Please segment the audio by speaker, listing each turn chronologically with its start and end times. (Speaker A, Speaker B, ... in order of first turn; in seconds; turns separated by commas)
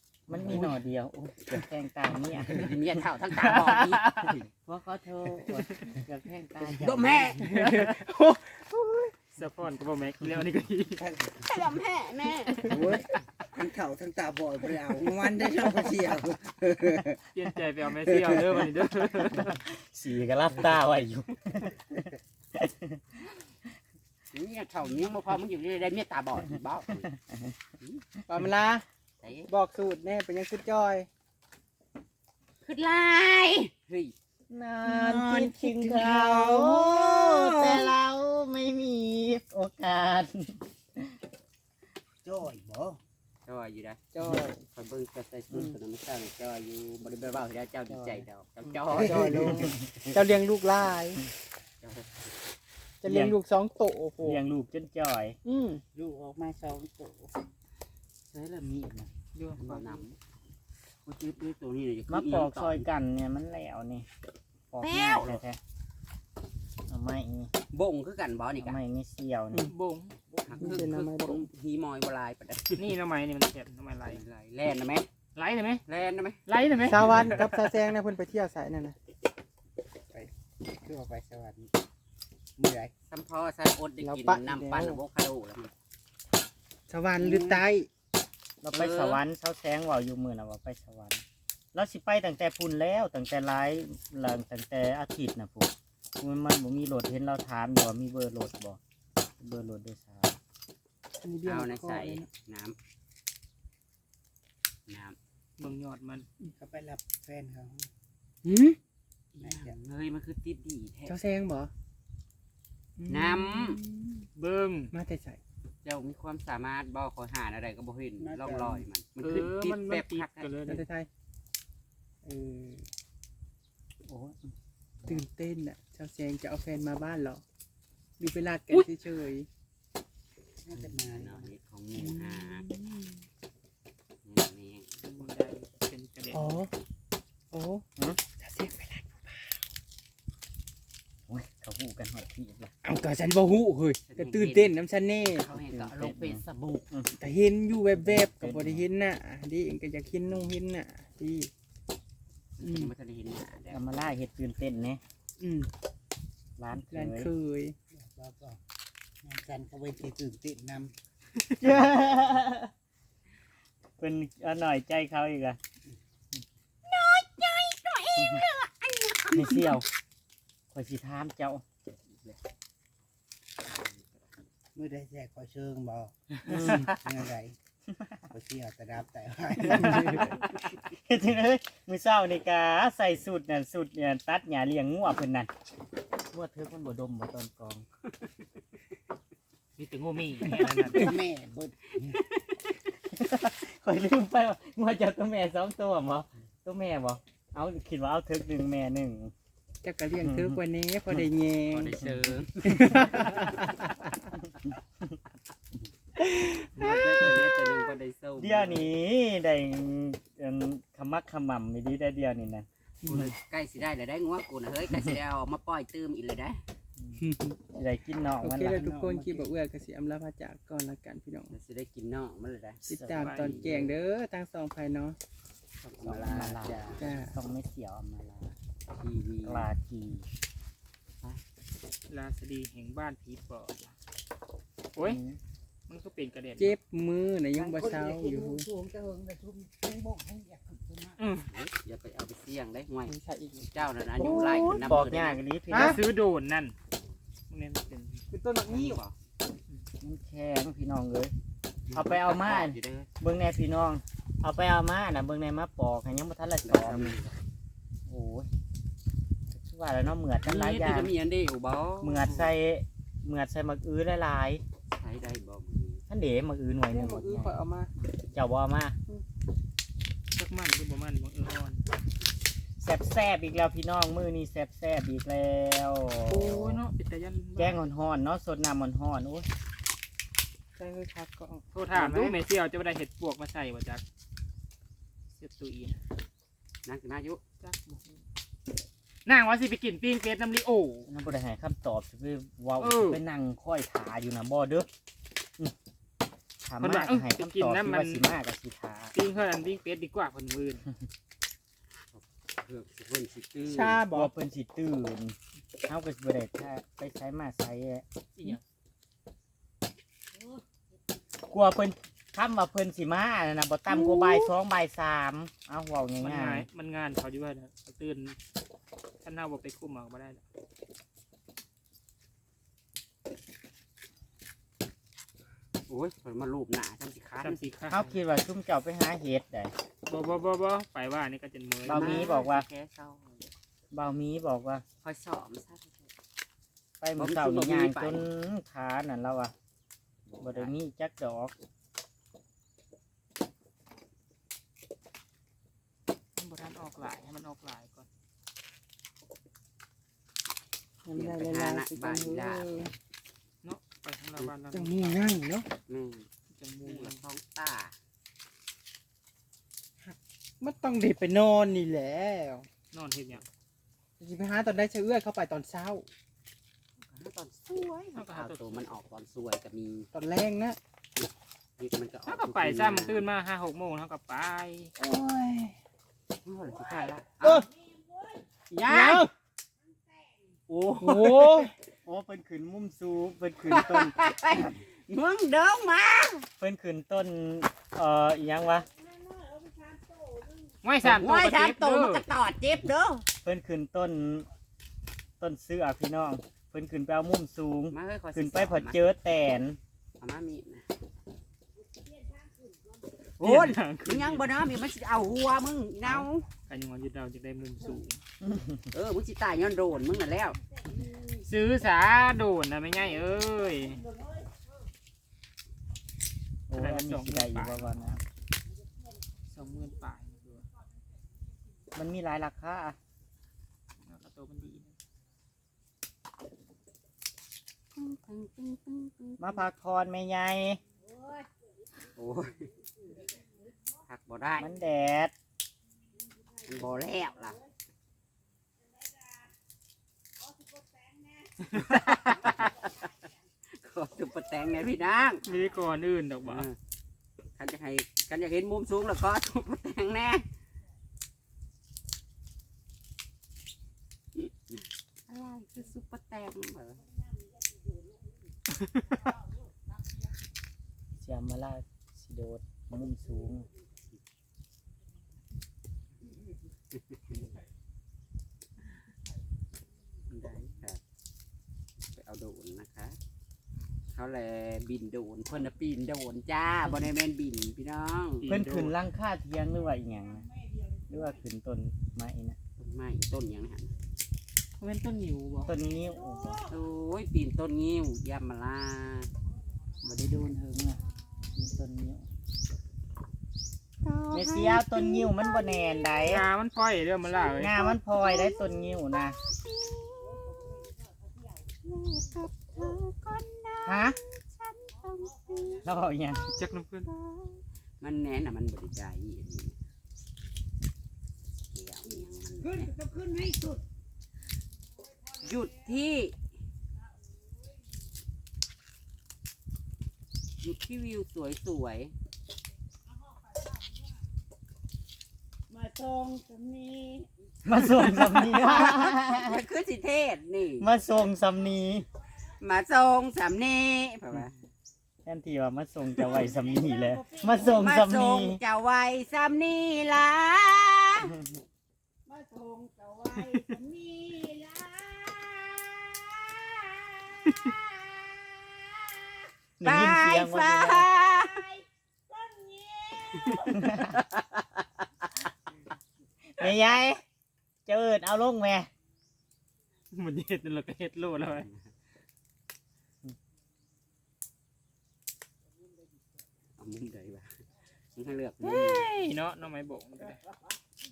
Speaker A: 0.3-2.9, Speaker B: 2.5-4.4, Speaker C: 3.4-4.3, Speaker A: 4.7-7.4, Speaker D: 6.6-7.6, Speaker E: 7.4-9.1, Speaker C: 7.6-8.0, Speaker C: 9.3-11.1, Speaker D: 11.0-11.5, Speaker B: 11.4-12.8, Speaker D: 12.6-17.2, Speaker C: 17.3-19.5, Speaker D: 18.1-18.4, Speaker A: 19.2-23.0, Speaker B: 24.3-27.1, Speaker A: 27.1-27.5, Speaker E: 28.3-28.8, Speaker B: 29.2-29.5, Speaker E: 29.5-31.1, Speaker B: 32.6-34.1, Speaker A: 34.5-41.1, Speaker D: 34.8-37.8, Speaker D: 42.2-43.0, Speaker B: 43.5-49.8, Speaker E: 44.1-44.6, Speaker A: 47.9-48.2, Speaker E: 48.9-51.2, Speaker D: 49.0-49.8, Speaker B: 51.8-52.4, Speaker E: 53.0-54.4, Speaker A: 53.0-53.4, Speaker A: 54.2-55.4, Speaker E: 55.4-55.8, Speaker D: 55.9-57.3, Speaker B: 58.3-60.2, Speaker C: 59.3-60.0, Speaker B: 61.1-62.9, Speaker A: 62.1-64.1, Speaker A: 64.7-65.6, Speaker B: 64.8-65.4, Speaker A: 66.9-67.5, Speaker B: 67.7-68.8, Speaker A: 68.6-69.7, Speaker C: 69.7-70.1, Speaker B: 70.4-72.8, Speaker D: 70.5-70.8, Speaker E: 70.6-71.5, Speaker C: 72.8-74.2, Speaker B: 74.0-75.1, Speaker C: 75.3-75.8, Speaker B: 75.9-76.4, Speaker C: 76.5-77.7, Speaker E: 76.9-79.0, Speaker D: 80.8-81.7, Speaker D: 82.6-82.9, Speaker B: 83.1-85.7, Speaker E: 84.0-85.0, Speaker E: 86.9-87.9, Speaker B: 87.2-87.6, Speaker A: 88.6-98.8, Speaker B: 88.7-89.2, Speaker A: 99.4-100.4, Speaker E: 101.2-102.3, Speaker B: 101.4-102.8, Speaker B: 104.9-105.2, Speaker C: 105.6-106.2, Speaker D: 106.4-107.9, Speaker E: 108.4-108.8, Speaker B: 109.3-111.2, Speaker D: 109.4-109.7, Speaker E: 111.1-111.7, Speaker E: 113.0-114.3, Speaker B: 113.1-113.8, Speaker C: 114.4-114.9, Speaker E: 114.9-115.4, Speaker B: 115.8-120.5, Speaker D: 118.2-118.9, Speaker C: 119.2-120.8, Speaker E: 120.6-121.1, Speaker E: 122.2-122.8, Speaker A: 124.1-124.5, Speaker E: 125.1-127.4, Speaker E: 128.2-129.5, Speaker D: 130.6-131.5, Speaker B: 131.0-132.7, Speaker E: 132.0-133.2, Speaker B: 134.2-135.3, Speaker C: 135.0-136.6, Speaker E: 136.3-136.7, Speaker E: 137.5-139.5, Speaker A: 141.3-142.7, Speaker E: 142.8-145.5, Speaker B: 144.1-146.8, Speaker A: 145.5-147.1, Speaker E: 147.2-151.5, Speaker A: 147.9-148.8, Speaker B: 152.6-153.9, Speaker E: 152.6-152.9, Speaker A: 153.7-155.0, Speaker E: 155.4-155.7, Speaker A: 156.6-157.3, Speaker E: 156.9-157.8, Speaker D: 157.9-158.6, Speaker D: 159.2-160.9, Speaker A: 161.6-162.7, Speaker A: 164.0-165.6, Speaker B: 166.8-169.7, Speaker A: 169.3-169.9, Speaker A: 170.7-171.6, Speaker B: 172.1-172.4, Speaker B: 173.7-174.1, Speaker D: 174.8-177.6, Speaker A: 176.4-176.9, Speaker D: 178.3-180.4, Speaker A: 179.6-185.5, Speaker A: 186.3-187.9, Speaker C: 189.8-191.2, Speaker A: 190.4-191.1, Speaker D: 190.5-192.2, Speaker A: 193.1-199.3, Speaker E: 199.8-202.0, Speaker A: 200.2-200.6, Speaker B: 201.7-203.0, Speaker E: 202.6-203.9, Speaker B: 206.7-208.9, Speaker A: 208.4-213.3, Speaker B: 213.0-216.6, Speaker E: 217.2-217.6, Speaker A: 217.7-218.9, Speaker E: 218.4-221.5, Speaker D: 218.7-219.5, Speaker B: 221.5-223.9, Speaker E: 222.9-225.2, Speaker A: 222.9-223.4, Speaker C: 223.1-223.4, Speaker B: 225.8-227.1, Speaker A: 226.0-228.5, Speaker E: 227.0-227.3, Speaker B: 229.0-229.7, Speaker A: 229.4-230.2, Speaker C: 232.1-233.9, Speaker A: 235.0-235.4, Speaker C: 235.9-236.8, Speaker E: 236.6-238.7, Speaker D: 237.5-241.2, Speaker C: 241.2-241.5, Speaker B: 241.5-245.4, Speaker E: 243.1-244.8, Speaker A: 244.2-246.0, Speaker E: 245.7-246.0, Speaker C: 245.7-246.7, Speaker C: 247.5-248.2, Speaker E: 248.3-249.0, Speaker B: 248.7-249.2, Speaker A: 250.0-251.3, Speaker B: 251.9-253.1, Speaker A: 251.9-257.1, Speaker B: 256.6-257.4, Speaker A: 258.1-258.5, Speaker A: 259.5-261.1, Speaker B: 260.4-262.5, Speaker A: 262.0-264.6, Speaker B: 264.9-266.0, Speaker A: 266.1-267.5, Speaker E: 266.9-267.9, Speaker A: 268.3-269.0, Speaker C: 270.3-271.8, Speaker A: 272.8-276.8, Speaker C: 276.3-277.8, Speaker A: 277.6-279.5, Speaker E: 280.8-281.6, Speaker C: 281.7-284.0, Speaker B: 281.9-282.4, Speaker C: 285.4-286.0, Speaker B: 286.9-287.4, Speaker C: 287.6-288.1, Speaker C: 289.2-291.1, Speaker A: 291.1-294.9, Speaker C: 292.8-293.2, Speaker A: 296.6-299.1, Speaker C: 296.8-298.2, Speaker C: 299.1-300.9, Speaker B: 302.1-304.0, Speaker E: 303.6-304.3, Speaker A: 304.1-305.4, Speaker A: 305.9-308.0, Speaker C: 308.4-308.6, Speaker A: 311.5-316.6, Speaker E: 314.0-314.5, Speaker C: 316.2-318.4, Speaker C: 319.2-320.4, Speaker B: 325.9-327.7, Speaker C: 327.4-328.1, Speaker A: 327.9-329.7, Speaker C: 330.1-332.3, Speaker A: 331.9-332.6, Speaker B: 331.9-333.5, Speaker A: 333.9-334.8, Speaker B: 335.0-336.1, Speaker A: 337.0-339.5, Speaker B: 337.2-338.2, Speaker B: 340.3-340.8, Speaker A: 340.4-341.6, Speaker C: 346.4-348.1, Speaker E: 351.0-352.9, Speaker B: 351.1-352.8, Speaker C: 353.6-355.4, Speaker E: 354.7-355.7, Speaker B: 355.9-356.3, Speaker C: 356.5-357.2, Speaker B: 356.8-357.9, Speaker E: 360.0-362.7, Speaker C: 362.9-363.4, Speaker E: 364.2-366.0, Speaker B: 367.1-370.1, Speaker C: 368.0-368.6, Speaker E: 370.1-370.8, Speaker B: 371.1-373.3, Speaker C: 372.3-374.9, Speaker E: 375.0-375.8, Speaker B: 376.4-377.6, Speaker D: 377.4-378.4, Speaker B: 378.7-379.3, Speaker A: 378.9-379.3, Speaker B: 380.7-381.7, Speaker E: 381.0-381.7, Speaker A: 382.0-384.1, Speaker B: 383.6-386.5, Speaker A: 386.6-388.9, Speaker D: 388.9-390.6, Speaker C: 390.8-392.2, Speaker B: 391.0-393.2, Speaker A: 393.4-394.5, Speaker A: 395.4-399.8, Speaker B: 397.9-399.1, Speaker B: 400.2-400.9, Speaker D: 402.2-402.8, Speaker C: 403.4-404.6, Speaker B: 403.4-406.5, Speaker C: 406.7-408.2, Speaker A: 408.4-408.9, Speaker B: 408.9-410.6, Speaker C: 411.4-414.0, Speaker A: 416.7-418.2, Speaker C: 416.7-417.9, Speaker C: 419.5-420.6, Speaker A: 421.9-423.0, Speaker C: 424.0-424.9, Speaker B: 427.9-429.6, Speaker A: 429.4-430.8, Speaker D: 431.1-431.5, Speaker B: 432.1-432.7, Speaker B: 434.1-434.7, Speaker A: 434.6-435.3, Speaker B: 436.6-437.6, Speaker B: 441.7-442.9, Speaker C: 441.8-442.5, Speaker B: 443.7-445.5, Speaker C: 445.4-446.7, Speaker B: 446.4-446.8, Speaker B: 447.6-450.5, Speaker B: 454.4-457.1, Speaker A: 461.1-463.7, Speaker B: 466.9-467.4, Speaker B: 470.3-471.0, Speaker B: 472.1-473.2, Speaker B: 474.1-478.5, Speaker C: 478.4-479.0, Speaker A: 478.5-480.4, Speaker A: 481.1-482.6, Speaker B: 482.8-483.9, Speaker C: 484.8-485.7, Speaker A: 485.6-486.6, Speaker D: 485.7-486.8, Speaker B: 486.7-489.3, Speaker A: 490.0-491.0, Speaker A: 491.6-492.2, Speaker B: 494.0-495.5, Speaker A: 494.3-496.5, Speaker C: 496.2-497.9, Speaker A: 497.6-499.4, Speaker B: 498.1-500.7, Speaker D: 500.5-501.4, Speaker B: 501.9-505.9, Speaker A: 503.8-504.2, Speaker D: 505.3-505.9, Speaker A: 505.8-506.5, Speaker C: 506.5-507.1, Speaker B: 507.1-509.8, Speaker B: 511.6-512.8, Speaker D: 512.6-513.8, Speaker B: 515.4-516.4, Speaker B: 520.6-522.1, Speaker D: 525.7-527.3, Speaker A: 527.6-529.6, Speaker B: 527.8-530.9, Speaker A: 530.8-532.0, Speaker B: 532.6-534.5, Speaker A: 535.2-538.6, Speaker D: 536.2-537.9, Speaker B: 537.5-541.4, Speaker D: 542.2-549.2, Speaker A: 549.8-551.1, Speaker B: 549.8-551.6, Speaker D: 551.4-554.1, Speaker A: 553.7-554.2, Speaker A: 556.5-557.2, Speaker A: 557.9-558.9, Speaker C: 560.1-561.7, Speaker B: 566.8-567.5, Speaker B: 568.1-569.1, Speaker C: 568.6-570.4